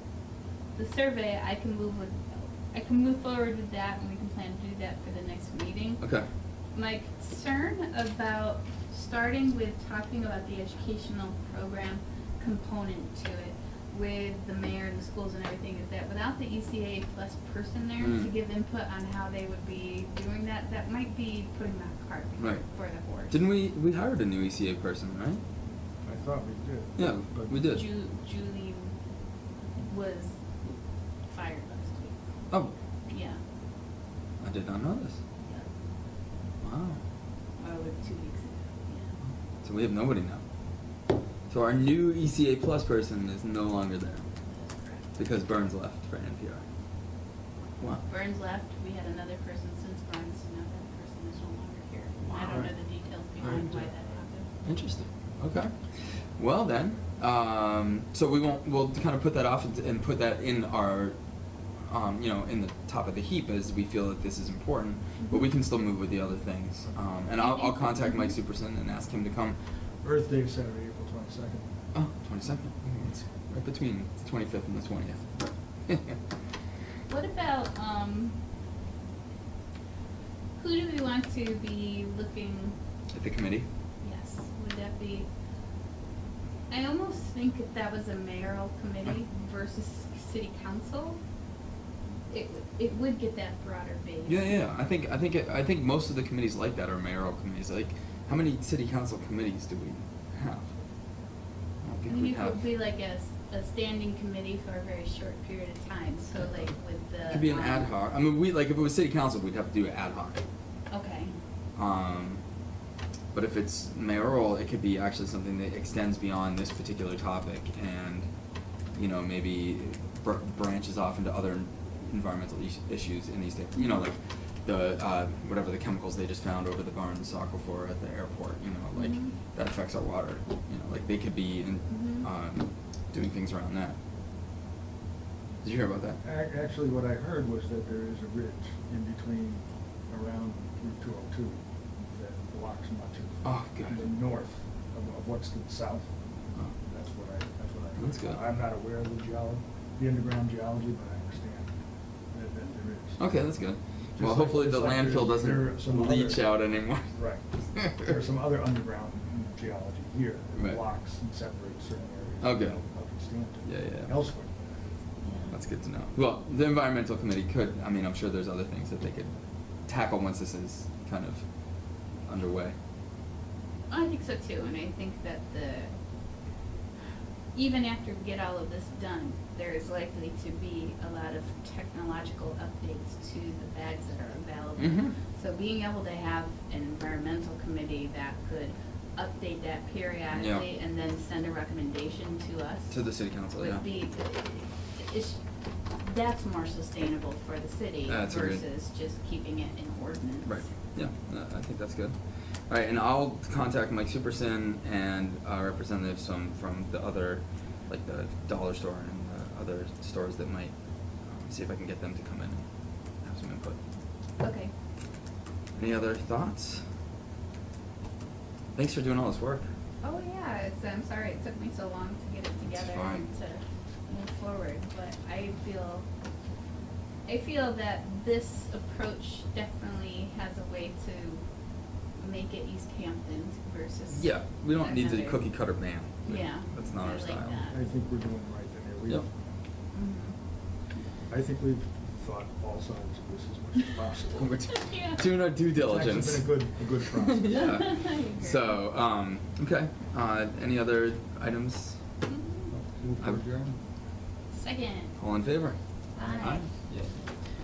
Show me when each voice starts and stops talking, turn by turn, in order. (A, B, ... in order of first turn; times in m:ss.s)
0:00.8-0:06.0 A
0:06.0-0:06.3 B
0:06.7-0:23.4 A
0:18.0-0:18.3 B
0:22.4-0:22.7 B
0:23.3-0:25.4 B
0:26.0-0:27.6 C
0:27.0-0:27.8 B
0:27.6-0:29.0 A
0:29.7-0:30.4 A
0:31.3-0:32.2 A
0:33.1-0:33.4 A
0:34.4-0:35.2 B
0:36.6-0:37.0 B
0:37.6-0:39.1 A
0:39.6-0:40.4 B
0:41.5-0:44.3 B
0:44.5-0:45.1 A
0:45.2-0:46.6 B
0:48.0-0:54.5 A
0:52.2-0:52.7 B
0:52.4-0:52.7 C
0:53.4-0:53.7 B
0:53.4-0:53.9 C
0:54.6-0:55.7 B
0:56.4-1:01.2 B
1:01.8-1:09.6 B
1:07.4-1:08.4 A
1:10.0-1:11.7 C
1:11.9-1:15.3 B
1:15.9-1:16.2 B
1:17.1-1:18.4 A
1:20.6-1:22.8 A
1:23.1-1:23.7 B
1:24.0-1:25.3 A
1:26.7-1:31.2 A
1:32.3-1:34.6 A
1:34.3-1:40.7 B
1:41.8-1:42.7 B
1:42.1-1:47.9 A
1:47.3-1:50.4 B
1:50.9-1:51.4 A
1:51.8-1:52.4 B
1:53.3-1:58.3 B
1:58.9-2:14.0 B
2:03.8-2:04.0 A
2:08.9-2:09.4 A
2:11.9-2:12.3 A
2:15.6-2:16.2 B
2:16.2-2:26.1 C
2:23.4-2:24.1 B
2:26.8-2:31.7 C
2:28.0-2:28.4 B
2:32.3-2:33.2 C
2:33.2-2:37.2 B
2:34.2-2:36.6 C
2:37.1-2:44.6 C
2:37.7-2:38.1 B
2:40.6-2:40.8 B
2:42.4-2:42.8 B
2:43.6-2:44.2 B
2:45.2-2:45.6 A
2:45.5-2:49.3 B
2:49.9-2:51.4 B
2:52.2-2:52.8 B
2:53.9-2:55.9 A
2:57.5-3:15.4 A
3:04.8-3:05.2 B
3:10.3-3:10.6 B
3:12.9-3:13.8 B
3:16.0-3:20.7 A
3:18.1-3:18.6 B
3:20.4-3:32.6 B
3:33.2-3:33.8 B
3:34.4-3:34.7 A
3:35.8-3:36.8 B
3:38.8-3:39.7 B
3:40.0-3:46.1 A
3:42.6-3:43.2 B
3:47.3-3:51.4 A
3:52.2-3:55.6 A
3:54.1-3:57.6 B
3:56.2-3:57.8 A
3:57.7-3:59.3 C
3:59.9-4:00.4 A
4:01.3-4:04.6 C
4:04.4-4:12.0 B
4:04.6-4:05.2 A
4:05.7-4:07.6 C
4:07.4-4:08.8 A
4:12.3-4:12.7 A
4:12.7-4:13.8 C
4:13.2-4:13.5 B
4:14.5-4:15.1 A
4:15.2-4:17.1 B
4:16.2-4:16.7 A